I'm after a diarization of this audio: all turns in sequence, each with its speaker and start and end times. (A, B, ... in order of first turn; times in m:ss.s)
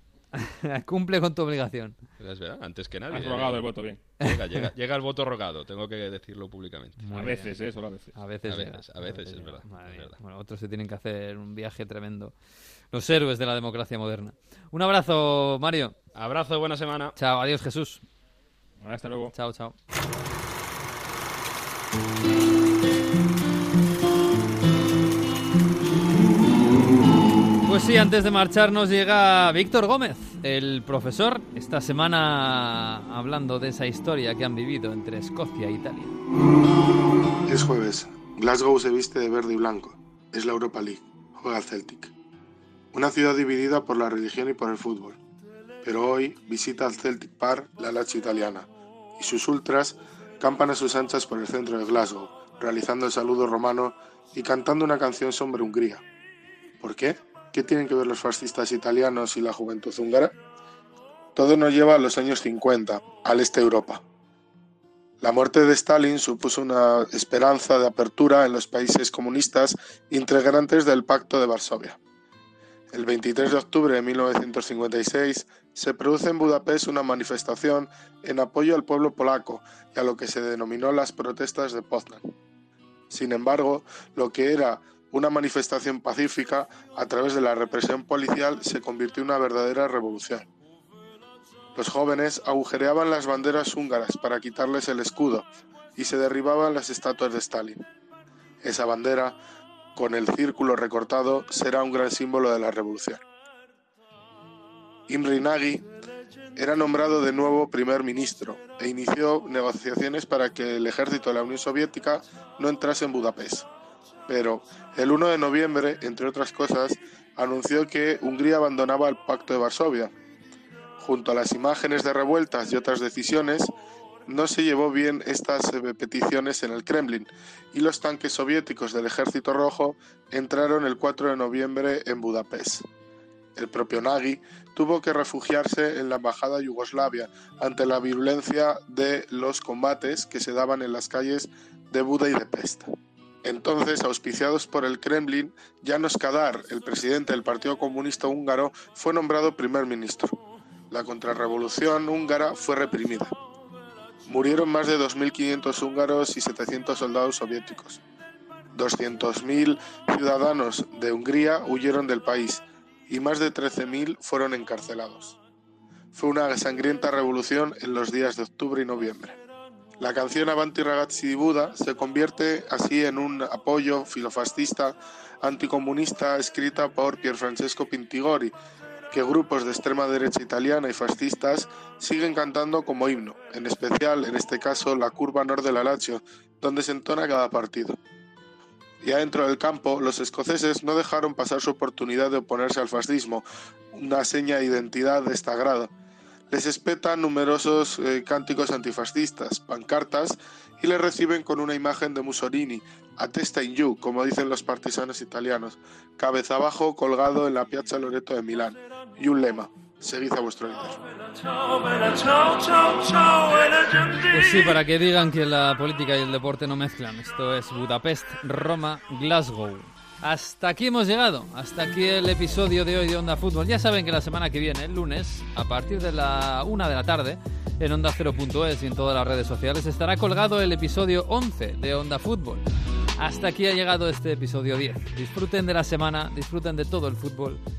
0:00.3-0:02.0 A
0:02.2-0:03.6 B
0:03.1-0:04.0 C
0:04.2-0:07.0 B
0:07.0-0:07.5 A
0:07.1-0:08.1 C
0:08.1-0:12.3 A
0:08.5-0:10.2 B
0:12.9-0:16.0 A
0:16.1-0:17.2 B
0:17.2-0:18.0 A
0:18.8-0:19.3 C
0:19.3-0:19.8 A
0:27.6-0:36.1 A
0:37.5-0:42.1 D
0:42.9-0:45.2 D
0:45.8-0:56.0 D
0:56.8-1:00.3 D
1:01.4-1:04.0 D
1:05.2-1:12.0 D
1:12.9-1:22.2 D
1:23.1-1:30.4 D
1:31.7-1:37.8 D
1:38.6-1:39.4 D
1:40.0-1:43.2 D
1:45.1-1:45.9 D
1:46.6-1:53.7 D
1:54.3-2:00.1 D
2:01.0-2:03.7 D
2:04.3-2:12.8 D
2:13.6-2:22.9 D
2:23.4-2:30.4 D
2:30.9-2:33.3 D
2:34.3-2:38.0 D
2:38.7-2:45.4 D
2:46.1-2:49.4 D
2:50.0-2:58.5 D
2:59.1-3:08.0 D
3:09.0-3:15.9 D
3:16.5-3:31.0 D
3:34.1-3:52.6 A
3:53.2-3:57.6 A